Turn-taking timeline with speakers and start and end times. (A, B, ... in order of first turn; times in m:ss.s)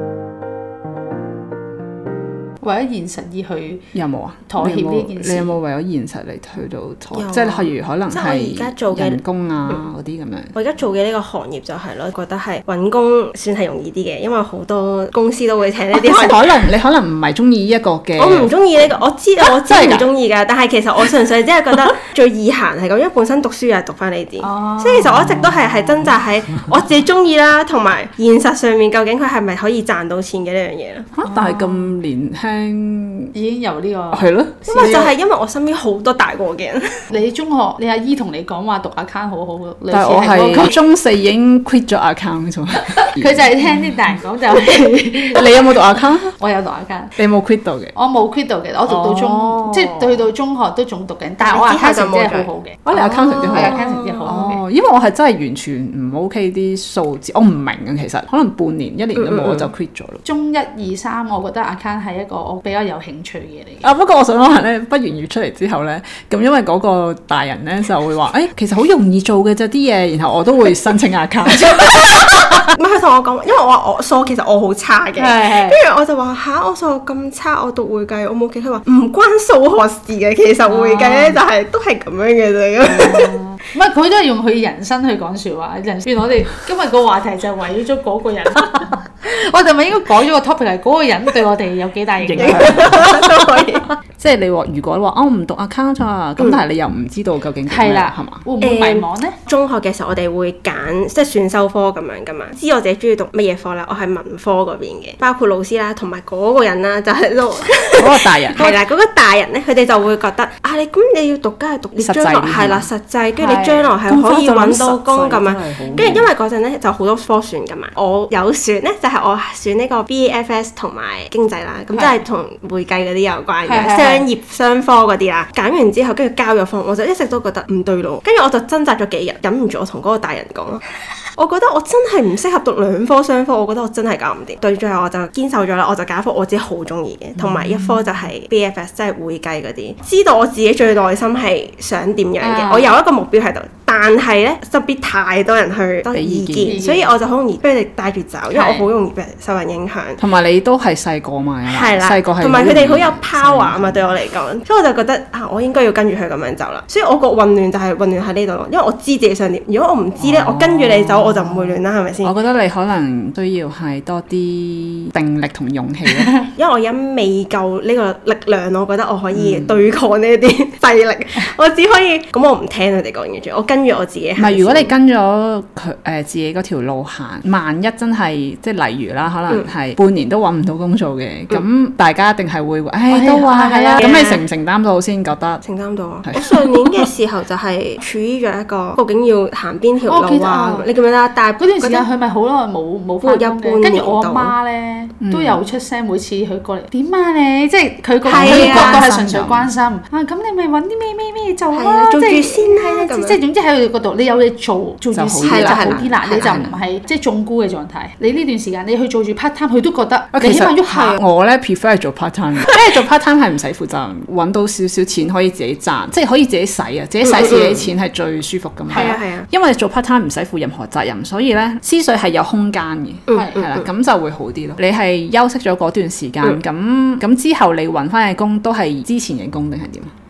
0:02.6-0:03.8 A
0:03.9-0:10.5 B
0:04.5-0:05.6 A
0:07.1-0:09.8 C
0:10.6-0:16.5 C
0:15.9-0:18.5 B
0:18.2-0:31.1 C
0:19.4-0:20.1 B
0:24.4-0:25.2 A
0:31.2-0:33.3 B
0:31.3-0:31.9 A
0:33.3-0:34.3 A
0:34.1-0:35.1 B
0:34.7-0:37.1 C
0:37.1-0:40.8 A
0:39.9-0:43.7 B
0:43.0-0:45.8 A
0:45.4-0:46.3 B
0:46.4-0:47.2 A
0:47.2-0:47.9 B
0:48.0-0:54.6 A
0:48.9-0:50.2 B
0:51.4-0:52.5 C
0:52.9-1:00.2 B
0:53.5-0:54.4 C
0:59.2-0:59.7 C
1:00.2-1:03.9 A
1:03.8-1:12.5 B
1:12.6-1:23.4 C
1:15.2-1:15.8 A
1:20.7-1:21.4 A
1:22.8-1:33.1 A
1:32.3-1:33.0 B
1:32.3-1:33.9 C
1:34.2-1:38.4 B
1:37.7-1:39.4 A
1:38.6-2:10.8 C
1:48.0-1:48.7 B
1:52.0-1:52.9 B
1:53.4-1:54.0 A
1:54.1-1:56.3 B
2:03.7-2:04.3 A
2:11.4-2:30.2 C
2:17.4-2:18.0 B
2:22.4-2:23.0 A
2:26.1-2:26.8 B
2:26.6-2:27.1 A
2:28.5-2:28.9 A
2:30.2-2:34.1 B
2:31.7-2:42.3 C
2:40.2-2:46.3 B
2:46.6-2:54.9 C
2:49.3-2:49.8 B
2:54.4-3:05.6 B
3:03.1-3:04.1 A
3:04.0-3:04.4 C
3:05.6-3:12.1 C
3:06.3-3:07.0 B
3:10.1-3:10.9 A
3:11.6-3:31.2 A
3:13.2-3:14.6 C
3:15.2-3:15.6 B
3:18.2-3:19.1 C
3:18.3-3:19.7 B
3:21.7-3:23.4 C
3:25.1-3:26.8 B
3:25.4-3:26.7 C
3:30.3-3:50.1 B
3:37.2-3:37.9 C
3:38.9-3:39.2 A
3:38.9-3:39.5 C
3:43.3-3:43.9 C
3:43.3-3:43.7 A